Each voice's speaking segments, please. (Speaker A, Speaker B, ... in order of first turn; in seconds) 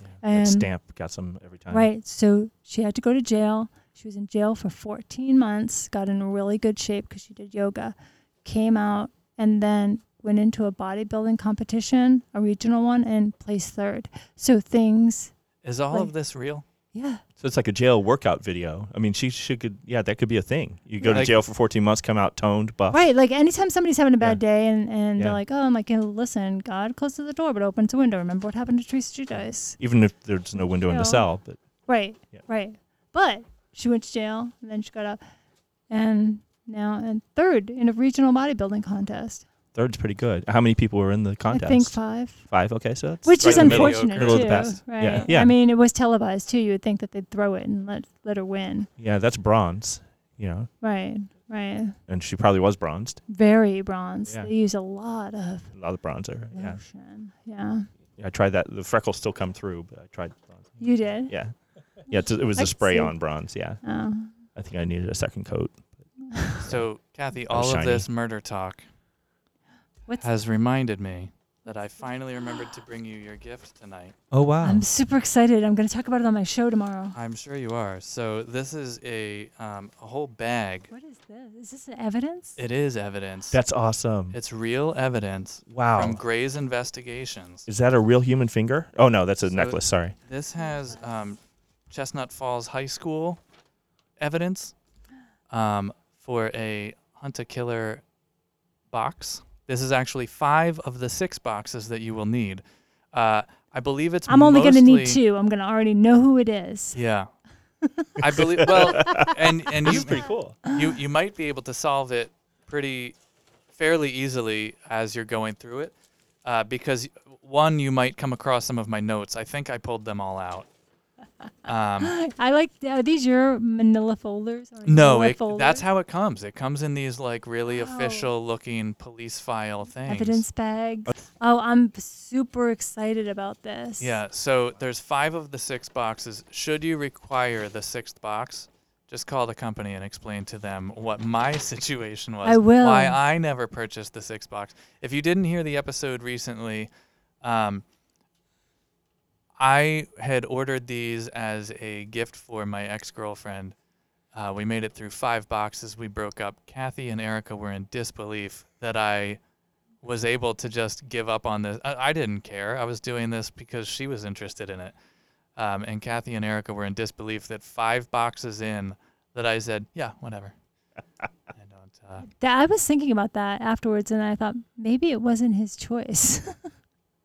Speaker A: 0.2-0.7, 1.7-15.3, 16.9-17.2, 22.9-29.8, 30.6-31.3, 31.9-35.2, 35.9-39.5, 41.5-42.5, 43.2-48.9, 50.8-52.0, 53.3-55.7, 56.5-57.9, 60.8-61.3, 62.5-63.2, 63.8-64.3, 66.3-66.6, 74.6-77.2, 80.9-82.6, 104.3-107.0, 107.8-108.1, 122.0-125.8, 127.7-128.3, 130.1-134.2, 142.4-143.2, 172.2-176.6
Speaker B: 0.3-1.9, 17.4-23.0, 29.8-31.6, 39.7-45.5, 49.0-50.7, 52.1-53.2, 55.7-56.8, 58.2-63.8, 64.5-66.0, 67.5-68.1, 74.3-74.8, 83.5-84.4, 85.7-86.2, 87.7-90.2, 108.3-110.6
Speaker C: 15.6-16.6, 21.1-21.4, 43.4-45.2, 66.6-68.8, 70.2-74.1, 77.1-80.9, 82.6-83.6, 84.3-87.7, 89.5-91.4, 91.9-93.4, 94.2-94.7, 95.5-98.0, 98.9-105.2, 107.0-107.3, 108.2-113.2, 113.7-115.9, 116.5-120.7, 121.7-122.1, 124.9-130.4, 134.0-146.9, 147.4-147.8, 149.6-153.7, 154.3-159.4, 160.0-164.9, 165.6-170.6, 171.6-172.2